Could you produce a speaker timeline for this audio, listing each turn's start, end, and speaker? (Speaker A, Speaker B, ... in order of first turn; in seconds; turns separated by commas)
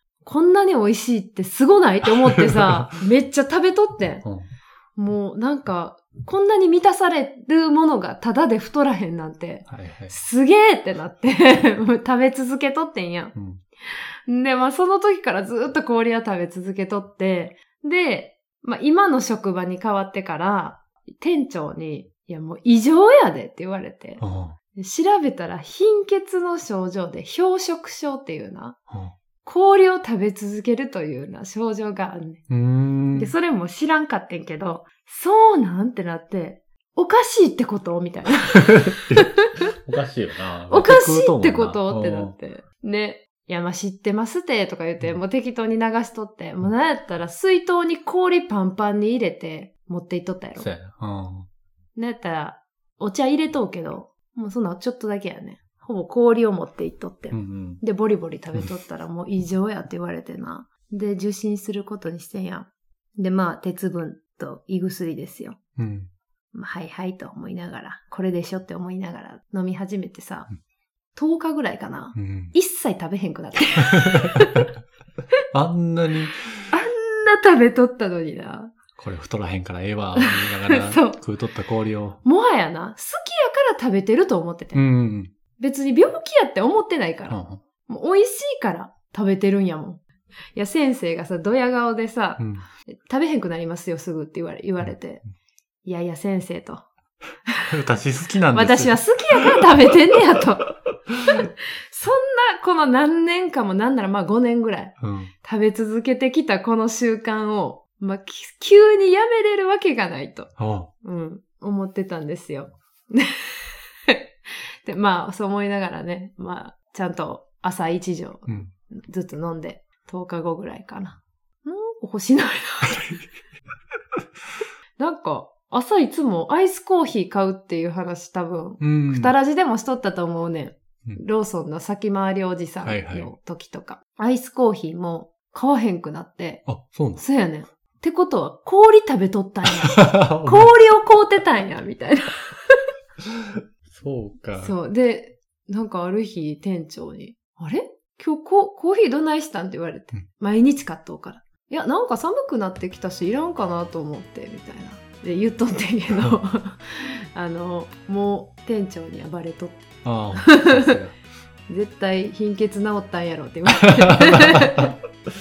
Speaker A: 0.2-4.2, Speaker B: 2.3-2.9, Speaker B: 4.2-4.5, Speaker A: 5.0-13.3, Speaker B: 9.7-10.2, Speaker B: 13.3-13.6, Speaker A: 13.9-24.2, Speaker B: 24.2-24.6, Speaker A: 24.7-28.8, Speaker A: 29.4-32.4, Speaker B: 32.5-33.3, Speaker A: 33.1-39.4, Speaker B: 38.5-42.4, Speaker A: 40.7-50.7, Speaker B: 50.5-51.5, Speaker A: 52.0-65.6, Speaker B: 57.3-57.8, Speaker B: 65.8-66.1, Speaker A: 66.5-70.5, Speaker A: 71.1-74.7, Speaker B: 72.1-72.5, Speaker B: 74.0-74.4, Speaker B: 75.5-76.5, Speaker A: 76.7-78.7, Speaker B: 79.0-82.2, Speaker A: 80.2-81.2, Speaker A: 82.2-84.8, Speaker B: 84.7-85.3, Speaker A: 85.6-90.0, Speaker B: 87.3-87.6, Speaker A: 90.5-95.2, Speaker B: 92.4-92.6, Speaker A: 95.8-96.8, Speaker B: 97.7-99.6, Speaker A: 98.5-100.7, Speaker A: 101.2-123.2, Speaker B: 105.0-105.3, Speaker B: 110.6-110.9, Speaker B: 122.9-123.2, Speaker A: 125.0-136.7, Speaker B: 128.8-129.3, Speaker B: 132.8-133.3, Speaker B: 136.7-137.2, Speaker A: 137.2-142.8, Speaker B: 139.6-140.7, Speaker B: 143.9-144.7, Speaker A: 144.6-161.0, Speaker B: 160.0-161.2, Speaker A: 161.7-164.9, Speaker B: 163.9-164.8